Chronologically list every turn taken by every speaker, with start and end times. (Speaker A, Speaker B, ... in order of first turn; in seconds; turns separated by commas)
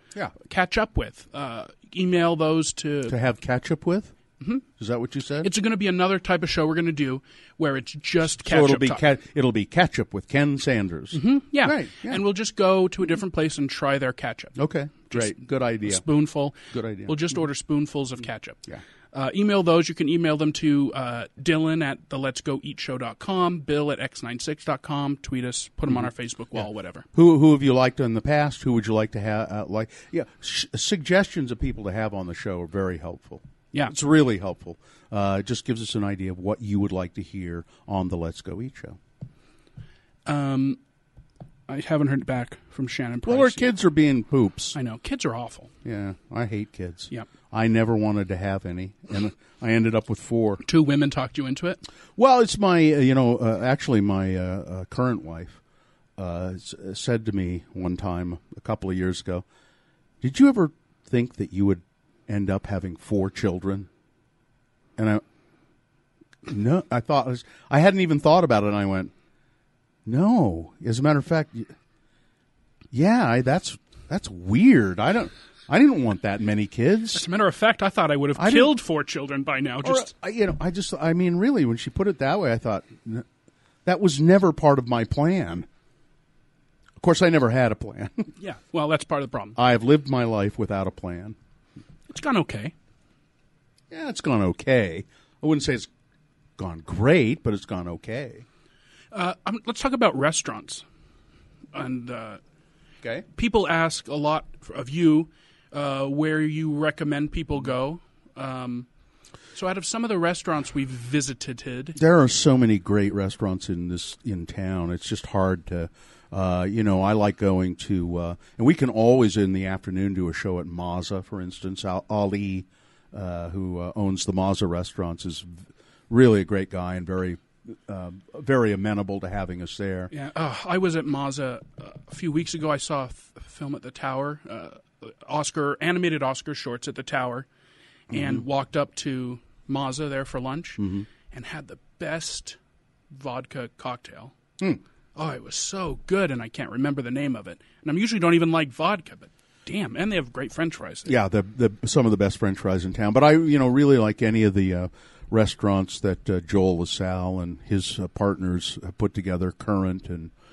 Speaker A: 0.4-3.2, Speaker B: 3.1-4.1, Speaker B: 4.8-5.5, Speaker A: 5.4-9.0, Speaker B: 8.4-12.2, Speaker A: 11.1-14.6, Speaker B: 14.6-16.0, Speaker A: 15.1-18.6, Speaker B: 16.7-17.2, Speaker A: 19.1-27.1, Speaker B: 25.9-26.6, Speaker B: 27.1-39.0, Speaker A: 40.2-40.8, Speaker A: 41.7-43.7, Speaker B: 43.2-44.8, Speaker A: 44.7-45.7, Speaker B: 45.8-50.6, Speaker A: 50.6-51.8, Speaker B: 52.2-55.6, Speaker B: 56.2-59.5, Speaker B: 60.2-63.9, Speaker B: 65.0-65.2, Speaker B: 66.5-69.1, Speaker B: 70.1-71.7, Speaker B: 72.9-77.2, Speaker A: 77.1-80.1, Speaker B: 78.4-78.8, Speaker B: 79.8-83.3, Speaker B: 83.8-85.7, Speaker B: 87.0-88.3, Speaker A: 88.4-89.6, Speaker B: 89.6-91.4, Speaker A: 92.1-92.7, Speaker B: 93.9-95.9, Speaker B: 96.6-98.5, Speaker A: 99.1-100.8, Speaker A: 101.7-102.4, Speaker A: 103.3-108.9, Speaker A: 109.5-112.0, Speaker B: 112.0-130.1, Speaker A: 130.1-137.5, Speaker A: 138.1-142.6, Speaker B: 138.1-138.4, Speaker B: 140.8-141.1, Speaker A: 143.1-144.3, Speaker A: 145.2-151.1, Speaker B: 151.1-160.3